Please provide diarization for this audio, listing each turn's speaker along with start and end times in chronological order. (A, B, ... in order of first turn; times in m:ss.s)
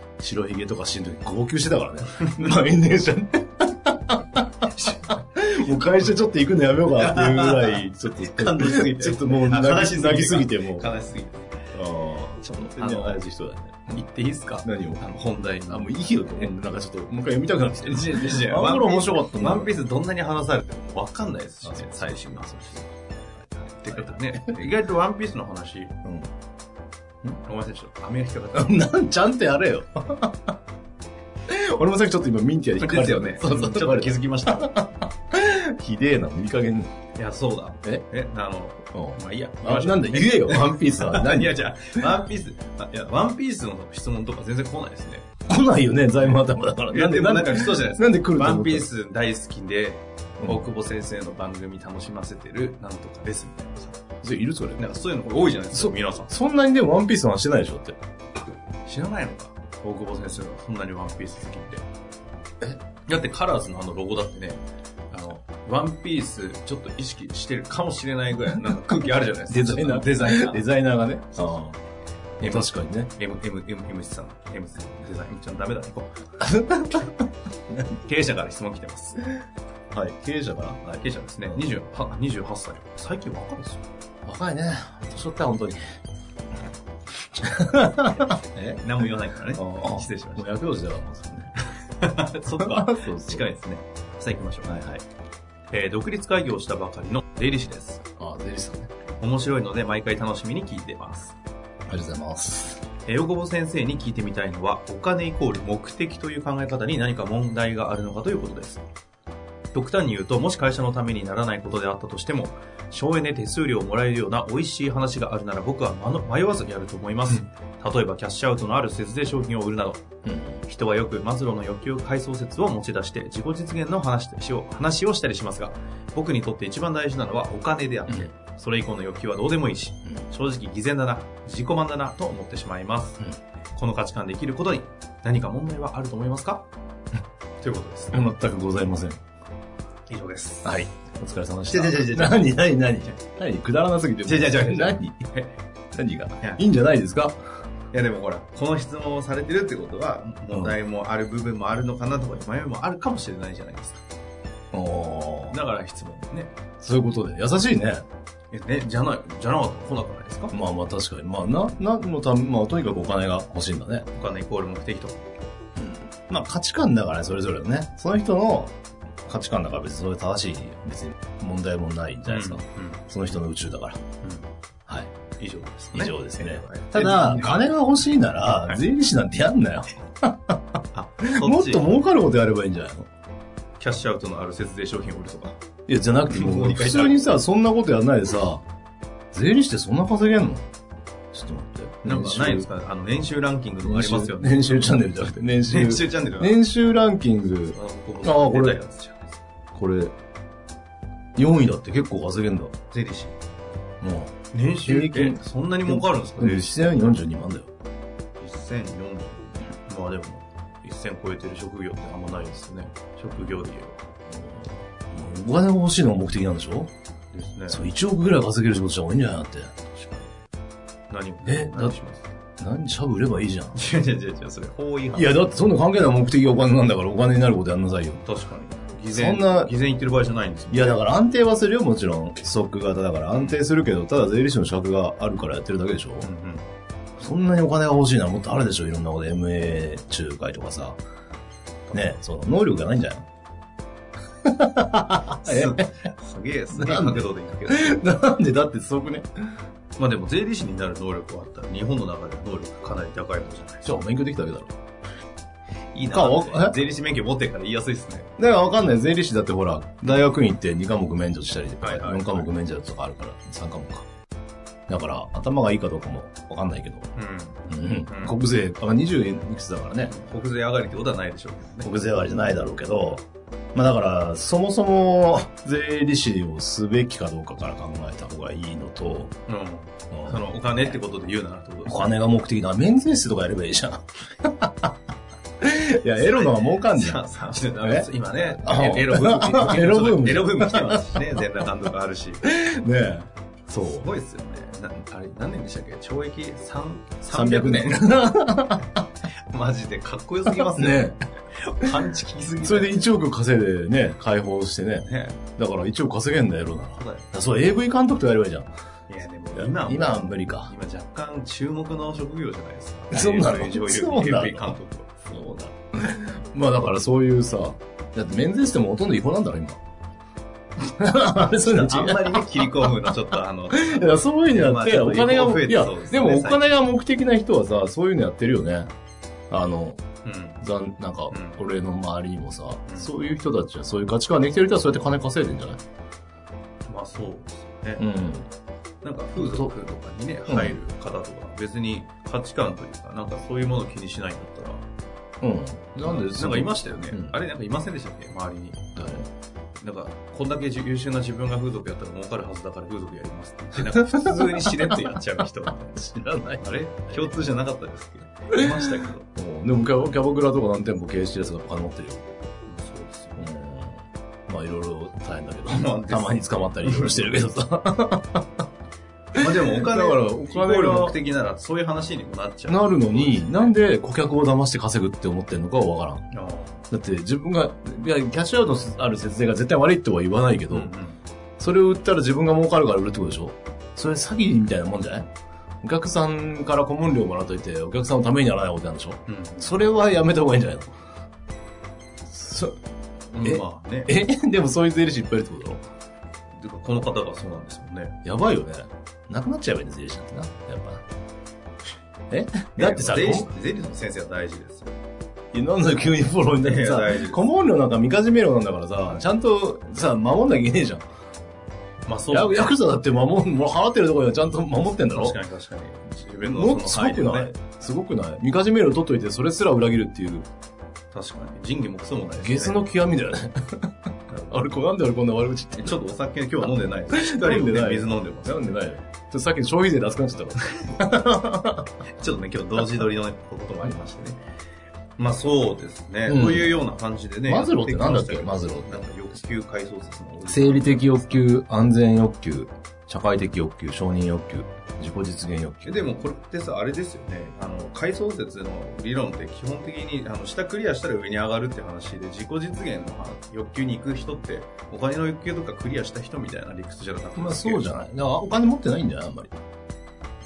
0:00.2-0:10.9 A
0:02.2-0:02.5 B
0:04.8-0:05.2 B
0:07.0-0:11.6 B
0:11.7-0:14.0 A
0:12.4-0:13.2 B
0:13.9-0:16.5 B
0:14.6-0:15.0 A
0:15.7-0:19.7 A
0:17.8-0:25.9 B
0:21.6-0:22.8 A
0:23.9-0:24.5 A
0:26.0-0:26.3 A
0:27.5-0:28.8 B
0:28.5-0:30.6 A
0:31.5-0:36.9 A
0:32.8-0:34.8 B
0:37.2-0:45.3 B
0:38.9-0:41.6 A
0:45.5-0:48.9 A
0:46.9-0:54.0 B
0:50.4-0:50.7 A
0:54.2-0:54.8 A
0:54.8-0:56.3 B
0:55.7-0:58.0 A
0:58.4-1:01.9 B
1:03.1-1:10.7 B
1:09.5-1:11.8 A
1:11.3-1:11.7 B
1:12.4-1:13.1 A
1:12.4-1:16.1 B
1:16.4-1:17.8 A
1:17.9-1:19.3 B
1:19.9-1:21.6 A
1:21.0-1:23.8 B
1:24.3-1:25.8 A
1:27.4-1:28.8 A
1:28.8-1:30.5 B
1:29.6-1:31.5 A
1:32.0-1:35.0 B
1:32.6-1:33.4 A
1:35.7-1:38.0 B
1:38.2-1:38.9 A
1:39.2-1:41.4 B
1:41.9-1:42.8 A
1:43.1-1:48.8 B
1:49.7-2:00.0 B
2:00.2-2:00.6 A
2:00.7-2:13.2 B
2:13.8-2:16.7 B
2:17.6-2:18.2 B
2:18.1-2:19.2 A
2:20.1-2:20.8 B
2:20.6-2:25.2 A
2:21.7-2:23.2 B
2:24.3-2:25.6 B
2:25.9-2:27.4 A
2:27.9-2:34.0 B
2:30.5-2:30.8 A
2:34.7-2:35.6 A
2:35.5-2:36.6 B
2:36.8-2:38.0 A
2:38.5-2:40.5 B
2:40.5-2:44.1 A
2:44.1-2:45.2 B
2:45.8-2:48.8 A
2:49.3-2:54.0 A
2:52.3-2:53.0 B
2:54.9-2:55.1 A
2:55.4-2:57.7 B
2:55.9-3:03.1 A
3:01.0-3:01.9 B
3:03.8-3:05.6 B
3:05.9-3:08.6 A
3:06.3-3:07.3 B
3:09.3-3:10.6 A
3:11.3-3:12.7 A
3:12.0-3:15.1 B
3:13.8-3:18.8 A
3:15.6-3:16.6 B
3:17.7-3:19.4 B
3:19.7-3:20.1 A
3:21.4-3:22.7 A
3:22.9-3:23.4 B
3:24.0-3:27.7 A
3:24.5-3:27.1 B
3:28.4-3:34.0 B
3:34.3-3:36.9 A
3:37.3-3:37.8 B
3:37.7-3:39.8 A
3:39.9-3:40.3 B
3:41.1-3:42.4 B
3:41.4-3:42.0 A
3:42.6-3:43.8 A
3:43.8-3:45.6 B
3:45.2-3:48.2 A
3:48.2-3:51.0 B
3:49.1-3:49.7 A
3:50.7-3:56.3 A
3:53.3-3:53.6 B
3:56.2-3:56.7 B
3:57.2-4:01.0 A
4:01.9-4:03.3 A
4:04.4-4:05.9 A
4:05.4-4:08.0 B
4:06.7-4:09.3 A
4:10.0-4:14.1 B
4:13.8-4:14.8 A
4:15.9-4:18.3 B
4:16.1-4:16.8 A
4:18.4-4:24.1 A
4:21.8-4:22.5 B
4:24.9-4:27.1 A
4:27.2-4:28.4 B
4:27.7-4:30.2 A
4:30.1-4:31.9 B
4:31.8-4:39.4 A
4:39.5-4:42.2 B
4:40.1-4:41.0 A
4:41.8-4:45.0 A
4:45.6-4:47.2 A
4:46.1-4:52.5 B
4:47.8-4:51.4 A
4:52.4-4:54.1 A
4:53.8-4:58.4 B
4:57.3-4:59.0 A
4:59.5-5:03.1 B
5:00.5-5:01.2 A
5:02.6-5:08.7 A
5:05.0-5:05.4 B
5:07.0-5:07.3 B
5:09.1-5:15.1 B
5:09.6-5:10.7 A
5:13.1-5:14.8 A
5:15.3-5:19.8 A
5:21.0-5:22.9 A
5:21.6-5:26.8 B
5:23.7-5:28.9 A
5:29.5-5:30.0 A
5:30.2-5:30.6 B
5:30.6-5:35.8 A
5:31.3-5:31.6 B
5:32.9-5:33.1 B
5:36.9-5:38.1 B
5:38.0-5:38.5 A
5:39.0-5:44.8 B
5:39.4-5:39.7 A
5:40.5-5:40.8 A
5:45.4-5:47.4 A
5:46.0-5:49.0 B
5:49.0-5:49.3 A
5:49.8-5:56.0 B
5:53.9-5:55.0 A
5:55.9-5:57.4 A
5:56.6-5:59.3 B
5:58.5-6:02.2 A
6:02.7-6:03.4 B
6:03.4-6:08.6 A
6:05.7-6:07.4 B
6:09.3-6:13.8 B
6:09.4-6:11.2 A
6:12.7-6:16.3 A
6:16.3-6:16.8 B
6:16.9-6:20.9 A
6:20.7-6:21.2 B
6:21.6-6:25.3 A
6:25.8-6:30.9 A
6:29.3-6:29.8 B
6:32.3-6:32.8 A
6:33.3-6:34.1 B
6:33.4-6:35.8 A
6:36.5-6:38.2 B
6:38.2-6:41.0 A
6:42.3-6:43.5 A
6:42.8-6:45.0 B
6:45.5-6:51.0 A
6:46.6-6:47.5 B
6:52.1-6:52.8 B
6:52.3-6:55.4 A
6:55.1-6:57.5 B
6:56.4-7:00.5 A
7:01.1-7:02.9 B
7:02.4-7:06.0 A
7:04.3-7:04.6 B
7:05.8-7:08.8 B
7:06.6-7:11.9 A
7:12.2-7:14.4 B
7:15.2-7:21.4 B
7:16.3-7:16.8 A
7:17.5-7:19.0 A
7:20.5-7:26.0 A
7:25.8-7:37.9 B
7:37.4-7:39.5 A